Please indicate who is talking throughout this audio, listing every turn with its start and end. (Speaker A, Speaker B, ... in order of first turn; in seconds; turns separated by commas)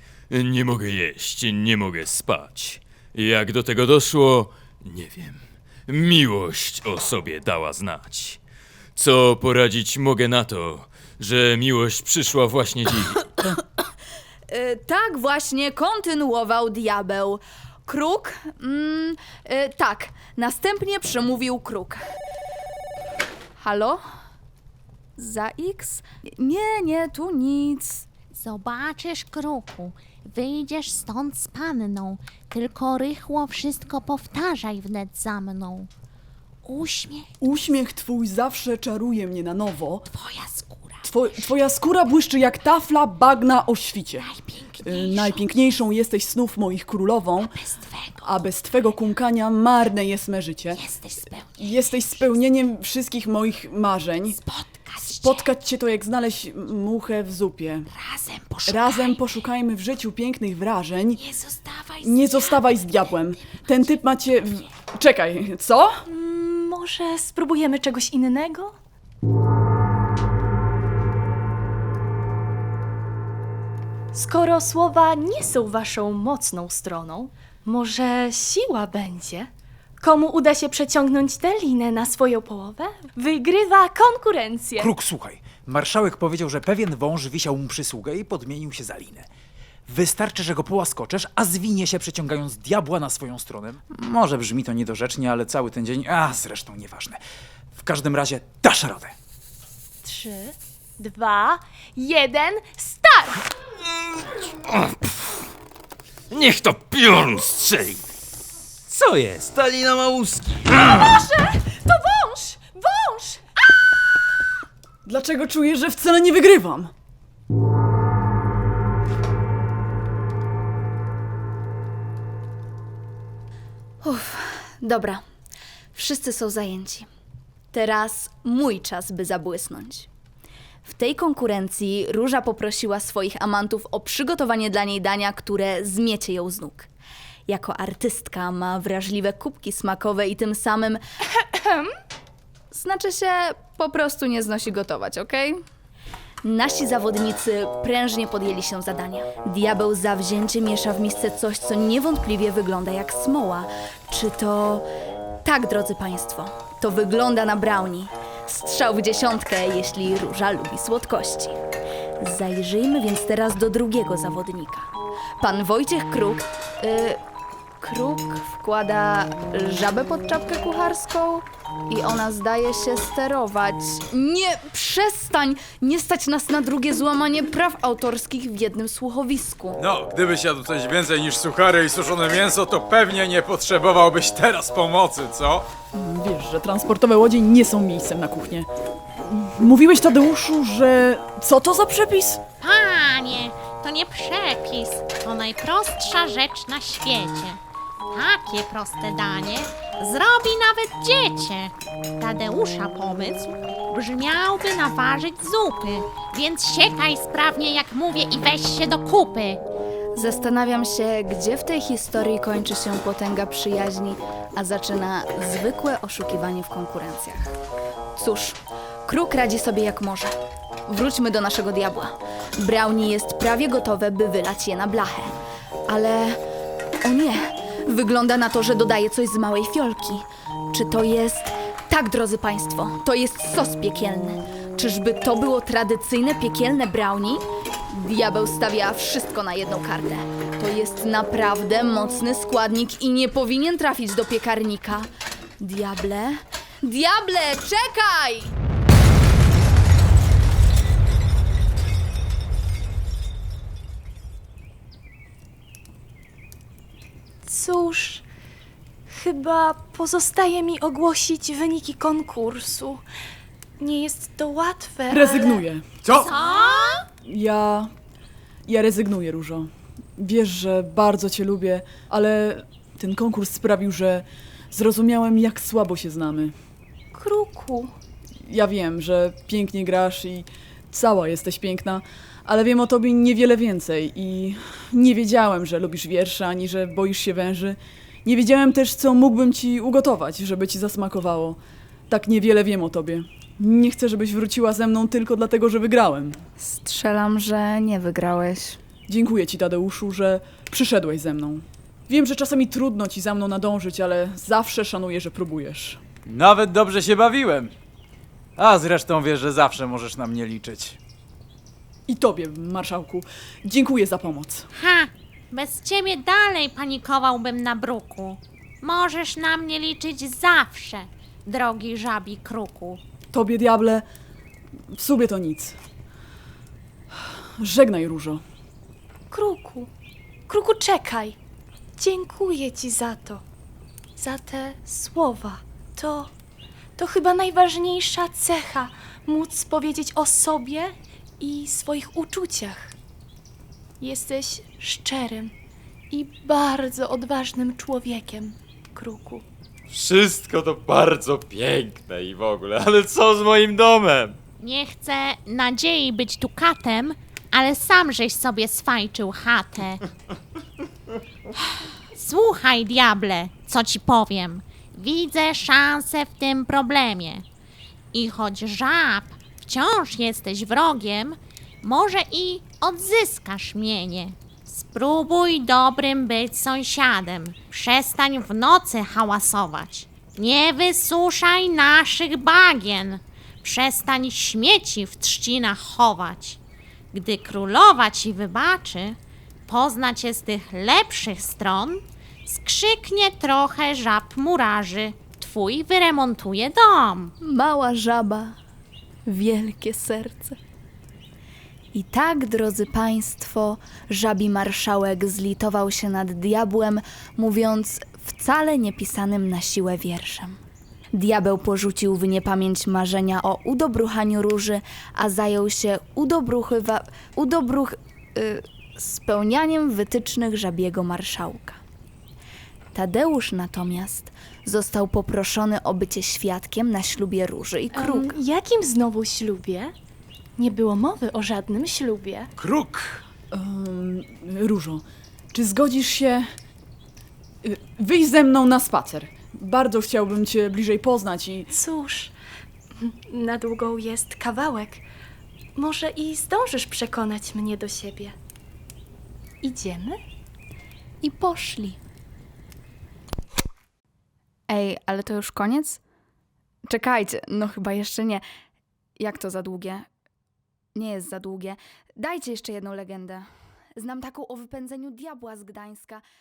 Speaker A: 0.3-8.4, Speaker A: 8.9-13.3, Speaker B: 14.5-22.0, Speaker B: 23.6-24.0, Speaker B: 25.2-28.1, Speaker C: 28.3-35.9, Speaker C: 36.6-37.3, Speaker D: 37.4-40.0, Speaker C: 40.2-41.1, Speaker D: 41.0-44.3, Speaker C: 44.2-45.5, Speaker D: 44.8-47.5, Speaker C: 47.5-48.5, Speaker D: 48.2-50.8, Speaker C: 50.7-52.2, Speaker D: 51.6-54.4, Speaker C: 54.4-55.5, Speaker D: 55.0-57.9, Speaker C: 57.9-59.2, Speaker D: 58.7-61.2, Speaker C: 61.2-63.7, Speaker D: 62.0-66.0, Speaker E: 66.1-68.7, Speaker E: 74.1-84.9, Speaker F: 84.8-89.3, Speaker F: 89.9-97.2, Speaker F: 97.8-99.1, Speaker E: 100.0-103.5, Speaker A: 104.7-105.2, Speaker A: 106.3-108.0, Speaker A: 108.9-110.9, Speaker E: 111.0-113.4, Speaker D: 115.0-116.9, Speaker B: 124.0-125.2, Speaker B: 125.9-127.1, Speaker B: 127.7-130.1, Speaker B: 130.8-136.9, Speaker B: 137.5-141.0, Speaker E: 141.5-141.9, Speaker B: 142.7-145.6, Speaker B: 146.4-154.8, Speaker B: 155.4-161.6, Speaker B: 162.2-164.9, Speaker B: 165.4-167.2, Speaker B: 167.8-179.8, Speaker F: 179.8-185.7, Speaker D: 185.9-188.7, Speaker D: 189.2-192.4, Speaker C: 192.6-197.6, Speaker C: 198.1-209.6, Speaker B: 210.1-217.5, Speaker B: 218.2-220.3, Speaker B: 220.9-225.3, Speaker B: 225.9-226.4, Speaker B: 227.0-245.1, Speaker B: 245.6-248.5, Speaker E: 257.4-258.2, Speaker E: 259.1-263.0, Speaker E: 263.8-265.6, Speaker D: 265.1-265.8, Speaker F: 266.0-266.3, Speaker C: 266.2-267.0, Speaker D: 267.2-267.9, Speaker D: 268.7-276.5, Speaker E: 277.1-277.9, Speaker D: 278.5-296.4, Speaker B: 296.6-298.8, Speaker D: 299.1-306.0, Speaker F: 306.2-307.7, Speaker F: 308.6-311.0, Speaker D: 312.1-314.7, Speaker C: 314.8-323.0, Speaker D: 323.3-324.1, Speaker D: 324.9-325.8, Speaker D: 327.6-328.4, Speaker E: 329.3-329.9, Speaker E: 330.5-331.4, Speaker E: 332.0-333.4, Speaker E: 334.1-336.3, Speaker E: 337.0-342.9, Speaker E: 344.0-345.5, Speaker E: 346.1-349.4, Speaker A: 349.9-354.4, Speaker C: 354.6-360.0, Speaker C: 362.1-367.4, Speaker C: 368.1-386.6, Speaker C: 387.1-397.3, Speaker B: 397.4-398.6, Speaker B: 399.3-400.6, Speaker B: 401.9-410.6, Speaker B: 411.1-421.8, Speaker B: 422.9-428.3, Speaker E: 427.9-429.9, Speaker E: 430.6-432.5, Speaker F: 432.6-433.2, Speaker D: 433.5-435.0, Speaker D: 435.5-436.5, Speaker D: 437.6-441.7, Speaker E: 441.7-442.3, Speaker E: 443.0-445.0, Speaker E: 445.8-448.3, Speaker E: 449.6-450.2, Speaker B: 451.2-452.0, Speaker B: 454.7-456.0, Speaker B: 456.9-458.4, Speaker B: 459.2-460.1, Speaker B: 460.9-466.2